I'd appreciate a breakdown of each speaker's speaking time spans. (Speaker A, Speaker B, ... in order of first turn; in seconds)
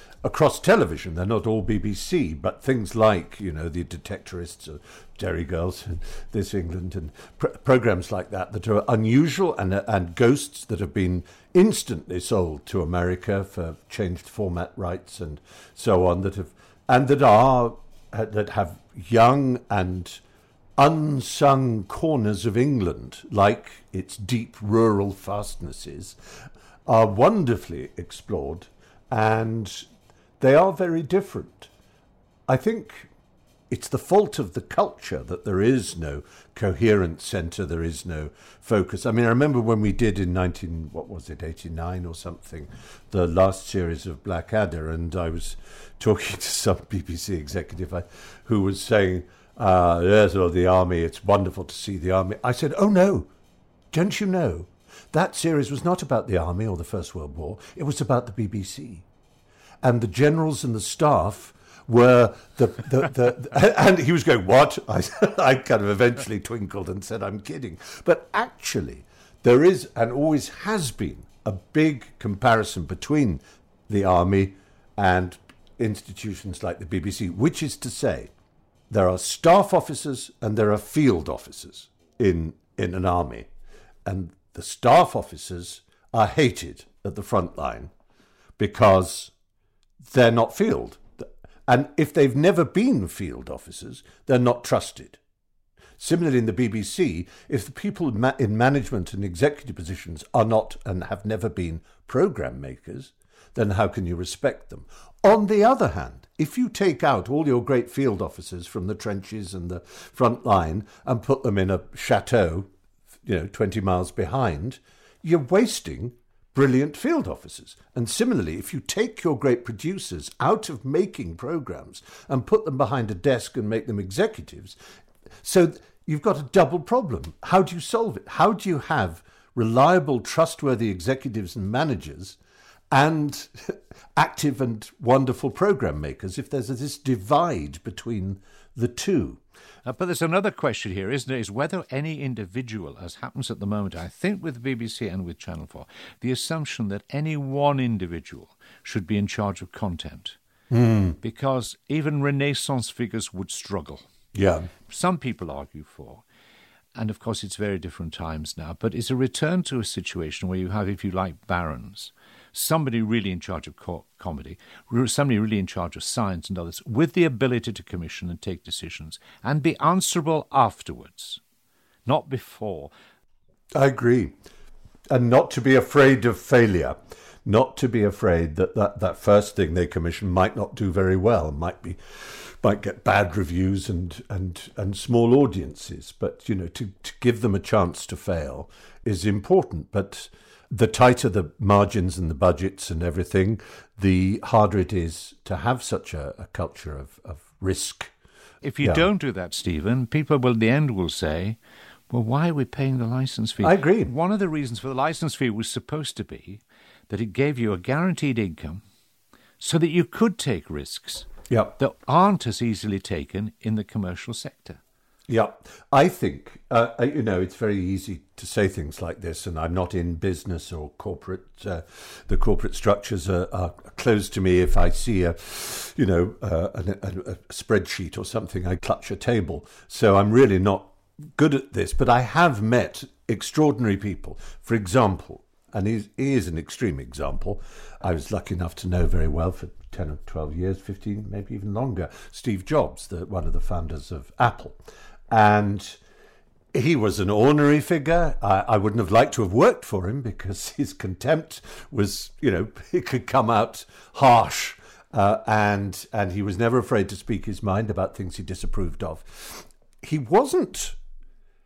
Speaker A: 0.2-20.2, 20.8-26.1, 26.9-29.9, 30.4-31.7, 32.5-33.1, 33.7-53.3, 53.9-59.0, 59.8-78.3, 78.9-83.5, 84.0-87.9, 88.6-89.3, 90.1-95.2, 96.0-112.7, 113.2-124.8, 125.4-132.4, 132.9-139.4, 150.7-151.2, 154.3-154.7, 173.7-174.3, 175.1-198.1, 203.6-204.1, 211.5-211.7, 215.3-244.8, 245.3-246.0, 246.7-260.9
Speaker B: 139.8-150.4, 151.2-154.0, 154.9-156.2, 156.9-171.4, 172.1-172.9, 198.6-201.6, 202.1-208.8, 209.6-214.8